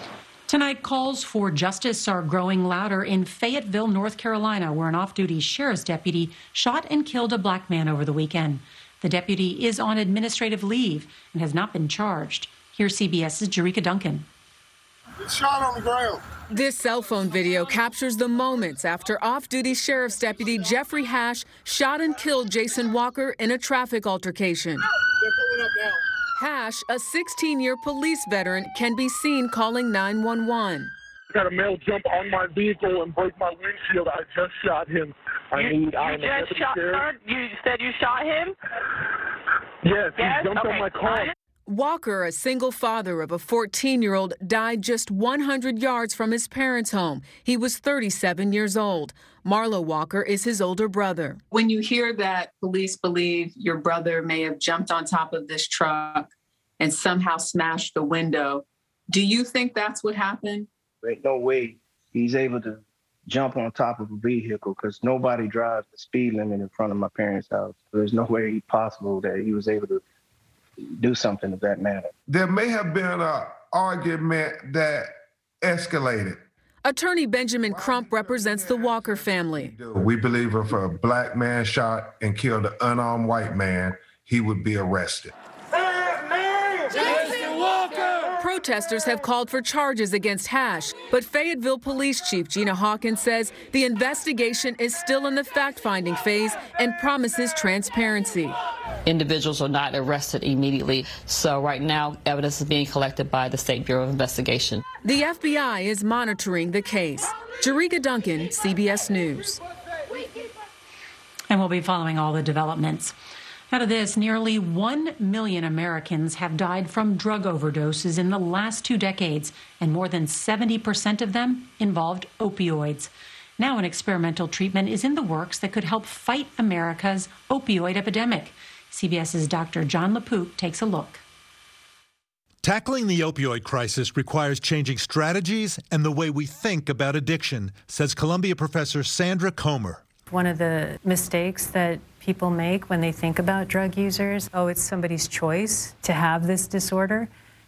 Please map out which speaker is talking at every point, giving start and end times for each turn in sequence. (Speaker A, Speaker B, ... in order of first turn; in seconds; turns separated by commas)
Speaker A: 0.5-14.3, Speaker B: 16.5-24.8, Speaker B: 26.4-30.9, Speaker C: 31.3-37.0, Speaker D: 35.6-38.5, Speaker C: 39.8-41.3, Speaker D: 40.2-41.3, Speaker B: 41.7-51.4, Speaker E: 51.5-60.7, Speaker F: 61.0-70.0, Speaker F: 71.0-72.1, Speaker G: 72.3-75.1, Speaker G: 75.6-76.4, Speaker B: 76.8-79.8, Speaker G: 79.9-85.3, Speaker B: 88.3-98.6, Speaker H: 99.1-104.8, Speaker B: 105.0-109.6, Speaker A: 111.5-113.1, Speaker A: 113.7-131.2, Speaker I: 132.6-140.0, Speaker J: 140.3-147.3